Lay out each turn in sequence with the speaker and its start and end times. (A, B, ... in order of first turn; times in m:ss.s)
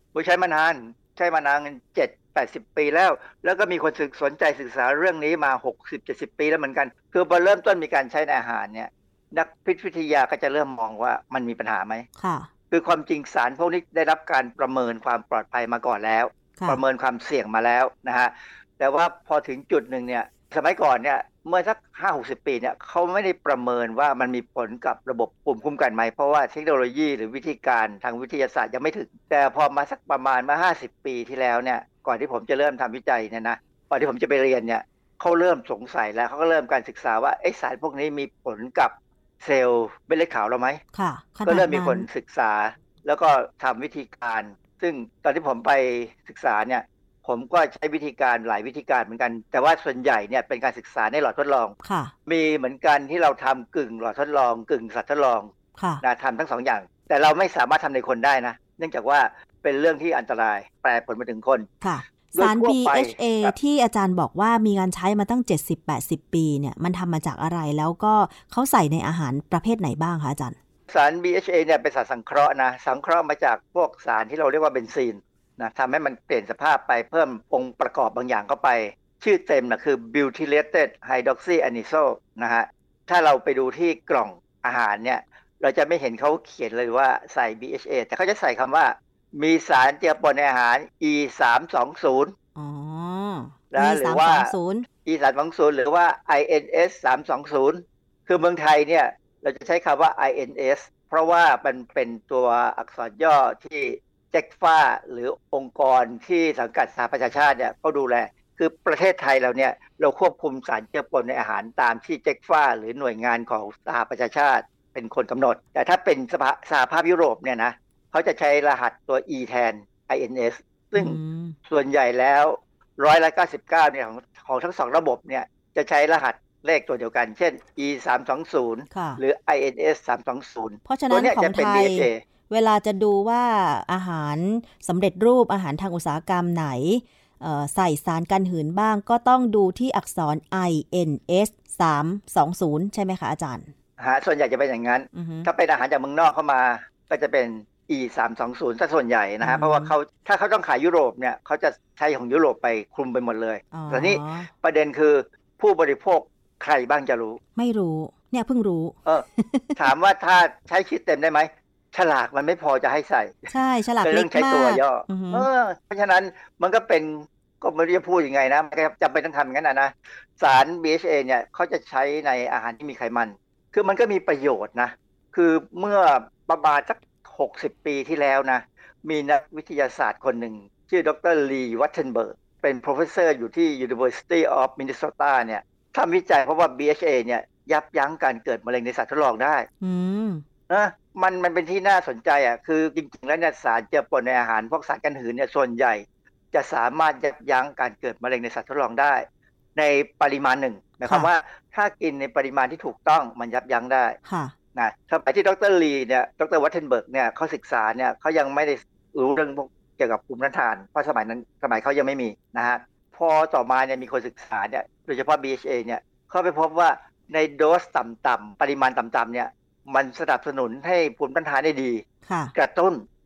0:00.1-0:12.0 A
0:12.2-0:12.5 B
0:12.7-0:40.8 A
0:40.9-0:42.0 B
0:41.4-1:01.7 A
0:51.8-0:52.1 B
0:55.8-0:56.0 B
1:01.8-1:10.6 B
1:02.4-1:03.5 A
1:10.9-1:32.3 A
1:32.5-1:34.9 B
1:33.7-1:34.5 A
1:35.0-2:12.2 A
2:00.9-2:01.6 B
2:08.9-2:09.2 B
2:10.9-2:23.7 B
2:24.0-2:37.4 A
2:25.1-2:25.5 B
2:29.4-2:29.9 B
2:33.7-2:34.5 B
2:37.6-2:39.8 B
2:39.8-2:43.5 A
2:43.5-2:45.5 B
2:44.0-3:09.7 A
3:09.8-3:10.4 B
3:10.7-3:24.2 A
3:24.2-3:24.5 B
3:24.7-3:42.0 A
3:42.2-3:42.5 B
3:42.5-3:43.0 A